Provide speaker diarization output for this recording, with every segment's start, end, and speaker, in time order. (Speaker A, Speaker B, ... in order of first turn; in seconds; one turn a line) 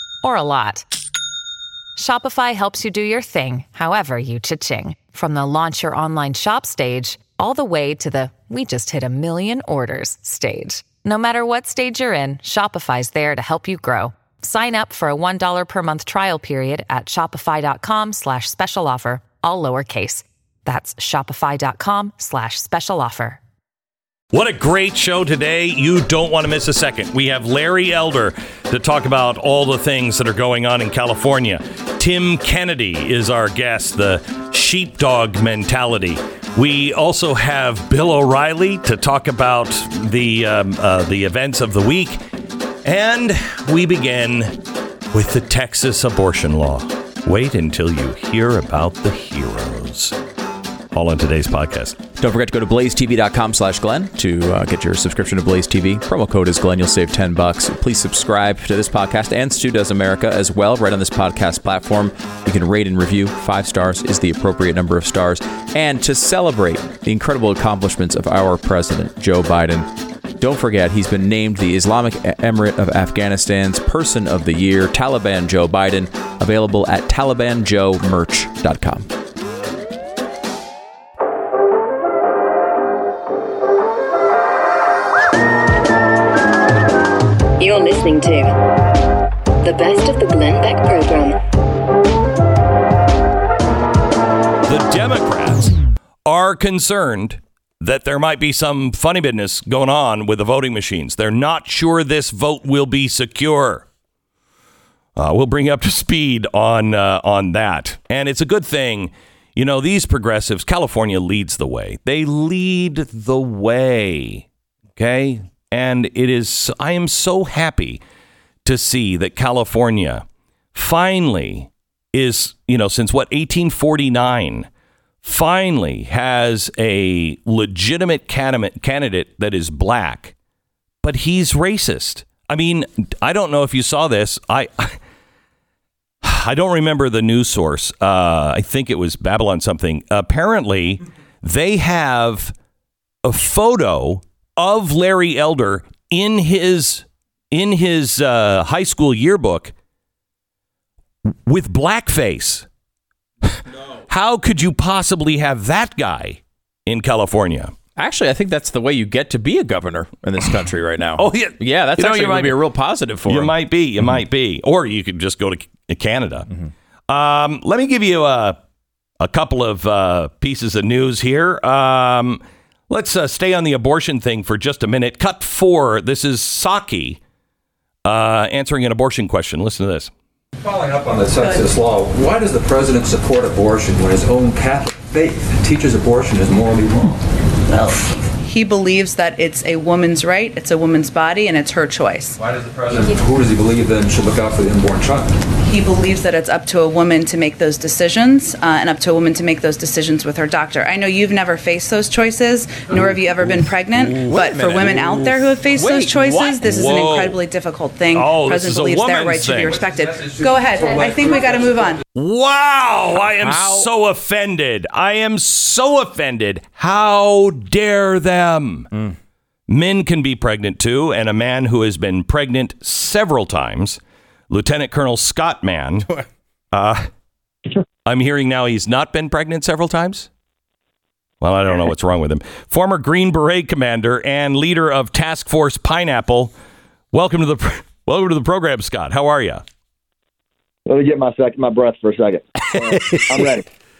Speaker A: 0.2-0.9
Speaker A: 1.9-23.4
Speaker B: 24.3-42.2
Speaker B: 42.8-44.5
Speaker B: 45.1-50.2
Speaker B: 50.9-52.0
Speaker C: 52.2-69.9
Speaker C: 70.4-79.1
Speaker D: 87.6-88.5
Speaker D: 89.6-91.4
Speaker B: 94.7-103.9
Speaker B: 105.2-114.4
Speaker B: 115.0-118.0
Speaker B: 118.6-124.7
Speaker B: 125.2-130.3
Speaker B: 131.0-135.0
Speaker B: 136.2-142.5
Speaker B: 143.2-149.7
Speaker B: 151.4-152.7
Speaker B: 154.1-157.7
Speaker C: 157.9-163.5
Speaker B: 161.2-162.6
Speaker B: 163.2-166.5
Speaker B: 167.1-168.6
Speaker B: 169.2-177.2
Speaker B: 178.0-180.1
Speaker E: 180.6-187.2
Speaker F: 188.4-192.4
Speaker E: 192.4-195.3
Speaker F: 195.6-212.0
Speaker C: 204.3-206.6
Speaker B: 206.6-207.4
Speaker B: 208.1-209.8
Speaker B: 212.1-218.9
Speaker C: 213.4-213.9
Speaker B: 219.7-224.0
Speaker B: 224.5-226.1
Speaker B: 226.7-227.1
Speaker B: 228.0-230.3
Speaker B: 231.4-236.5
Speaker B: 237.1-239.6
Speaker G: 240.8-243.6
Speaker B: 243.0-243.5